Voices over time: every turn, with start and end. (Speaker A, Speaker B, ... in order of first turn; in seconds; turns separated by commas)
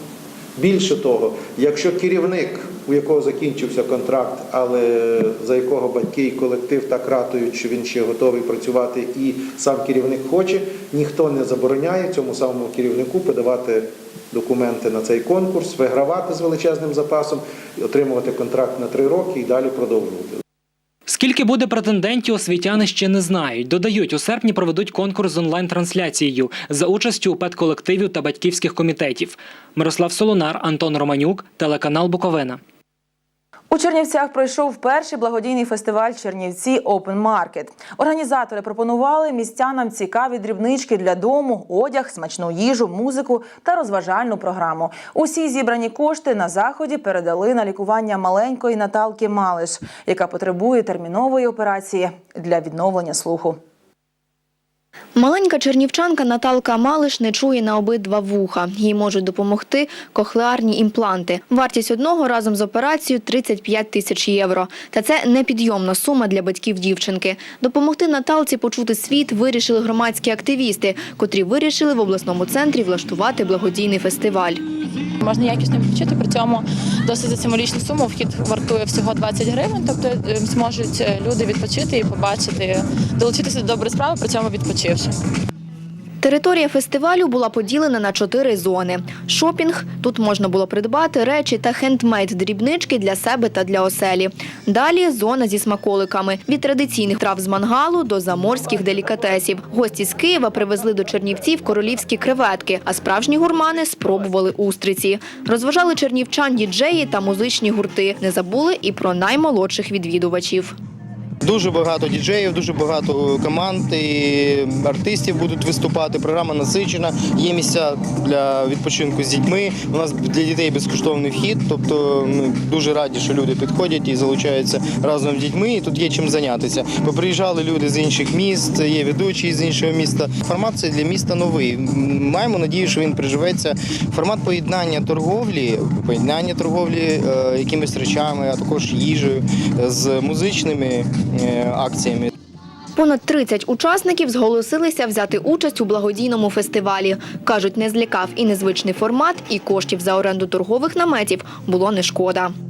Speaker A: 0.6-20.4, Speaker B: 21.1-32.6, Speaker C: 33.7-53.6, Speaker D: 55.1-74.6, Speaker E: 75.2-85.1, Speaker D: 86.2-110.8, Speaker F: 111.4-142.3, Speaker D: 143.0-152.5